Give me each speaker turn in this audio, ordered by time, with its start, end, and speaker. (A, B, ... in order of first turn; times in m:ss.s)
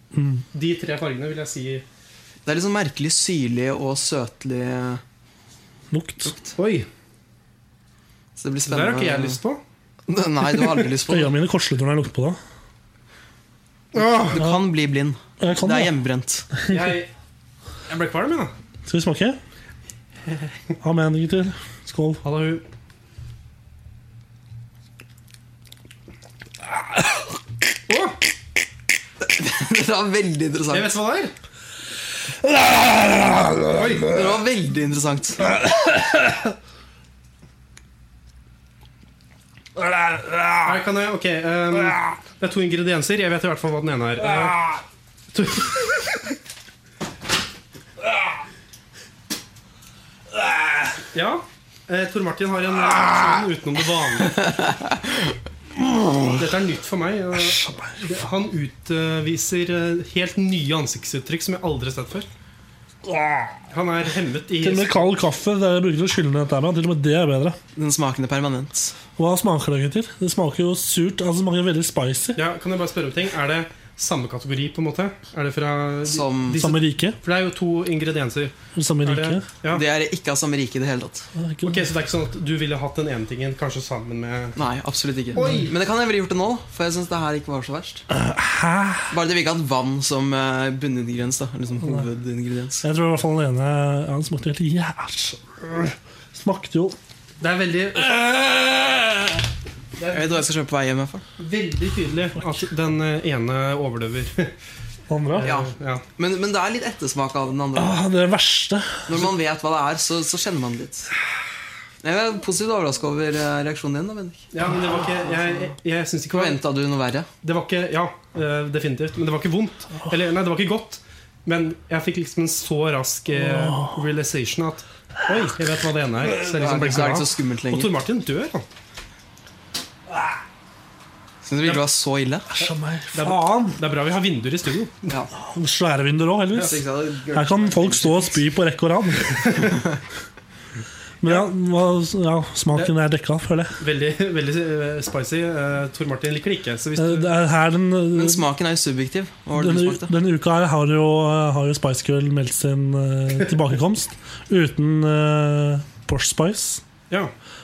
0:00.1-0:00.4 A
0:00.5-0:01.8 B
0:02.4-0:05.0 C
0:05.9-0:06.4 A
0:06.2-0:06.5 C
0:06.6-0:06.9 B
0:08.4-0:09.4 C
0:08.7-0:09.6 B
0:10.1-0:11.3 C
0:11.0-0:12.4 A
0:13.9-0:14.4 B
0:14.1-0:16.5 C
0:14.4-0:14.6 A
0:15.4-0:15.9 A
0:16.7-0:17.1 B
0:17.9-0:18.5 B
0:18.9-0:19.4 A
0:20.3-0:20.5 B
0:20.8-0:22.2 A
0:22.2-0:22.6 B
0:27.9-0:28.2 B
0:29.2-0:30.9 C
0:30.7-0:31.3 B
0:32.4-0:33.7 A
0:33.7-0:34.1 B
0:34.0-0:35.5 C
0:35.6-0:36.3 A
0:39.8-0:40.7 A
0:40.6-0:44.6 B
0:45.3-0:45.8 B
0:51.1-0:54.4 B
0:55.9-0:56.3 A
0:56.3-1:02.3 B
0:57.4-0:58.0 A
1:03.0-1:03.6 A
1:03.7-1:05.1 B
1:04.6-1:07.6 A
1:07.7-1:08.9 C
1:09.2-1:12.4 A
1:12.4-1:19.8 B
1:16.0-1:16.6 C
1:16.6-1:17.2 A
1:18.7-1:19.5 A
1:19.7-1:21.3 C
1:21.4-1:21.9 A
1:21.6-1:24.6 B
1:24.6-1:28.0 C
1:25.3-1:25.7 B
1:28.1-1:29.1 A
1:29.1-1:32.8 C
1:32.8-1:37.0 A
1:37.4-1:38.2 B
1:38.1-1:39.0 A
1:40.0-1:40.4 B
1:40.1-1:41.2 C
1:41.4-1:44.5 B
1:45.1-1:45.5 A
1:45.4-1:46.0 B
1:45.4-1:48.0 C
1:47.7-1:49.2 A
1:49.1-1:51.1 C
1:52.0-1:54.4 C
1:54.5-1:56.6 B
1:56.3-1:57.3 C
1:57.4-2:08.6 B
2:03.3-2:04.0 A
2:06.4-2:07.9 C
2:11.4-2:12.5 C
2:12.5-2:13.8 A
2:13.1-2:15.1 B
2:15.4-2:19.4 A
2:16.6-2:18.4 C
2:19.4-2:19.7 B
2:21.2-2:23.8 A
2:23.8-2:27.3 B
2:27.0-2:28.4 A
2:28.1-2:30.1 C
2:29.5-2:36.8 A